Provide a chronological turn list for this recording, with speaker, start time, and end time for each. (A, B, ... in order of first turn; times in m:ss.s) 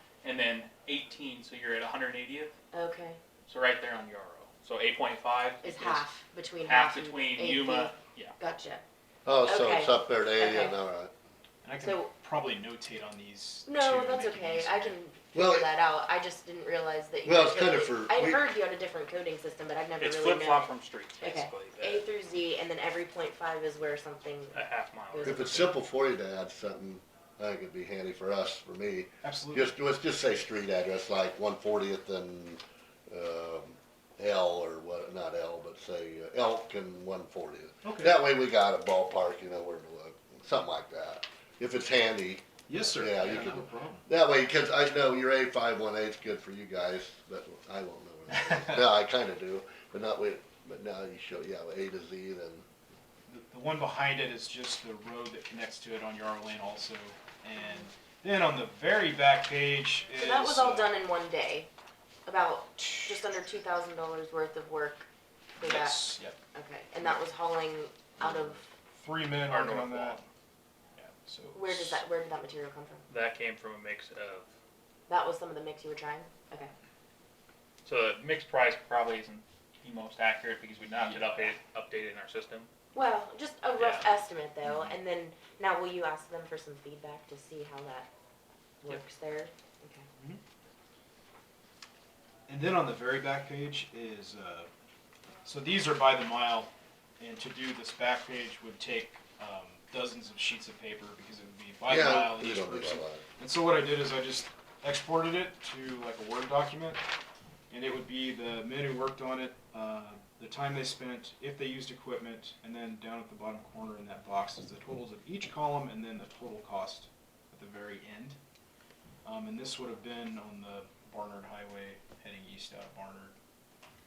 0:00.2-0:02.5 A
0:02.7-0:03.2 B
0:03.5-0:06.0 A
0:05.6-0:08.8 B
0:06.6-0:08.3 A
0:09.2-0:11.1 C
0:09.4-0:10.8 B
0:11.6-0:15.0 D
0:11.8-0:12.1 B
0:13.7-0:24.6 B
0:15.3-0:15.7 C
0:17.2-0:18.4 C
0:20.0-0:22.1 A
0:24.5-0:25.7 A
0:25.1-0:25.7 B
0:25.2-0:52.6 C
0:29.2-0:29.7 D
0:37.8-0:38.2 D
0:42.7-0:44.1 D
0:48.4-0:48.8 D
0:53.3-1:01.0 D
1:00.1-1:01.7 B
1:02.3-1:05.1 B
1:02.9-1:03.2 D
1:05.6-1:08.6 B
1:05.6-1:06.4 D
1:08.2-1:10.2 D
1:09.5-1:10.2 A
1:11.0-1:12.0 D
1:11.5-1:13.0 B
1:13.1-1:14.5 A
1:15.1-1:16.7 B
1:17.8-1:22.7 A
1:21.0-1:21.5 D
1:22.9-1:28.1 B
1:23.8-1:24.1 A
1:24.6-1:25.0 D
1:28.8-1:30.1 B
1:32.5-1:34.7 D
1:35.4-1:47.0 D
1:41.9-1:43.2 C
1:47.7-1:58.4 D
1:59.2-2:03.3 D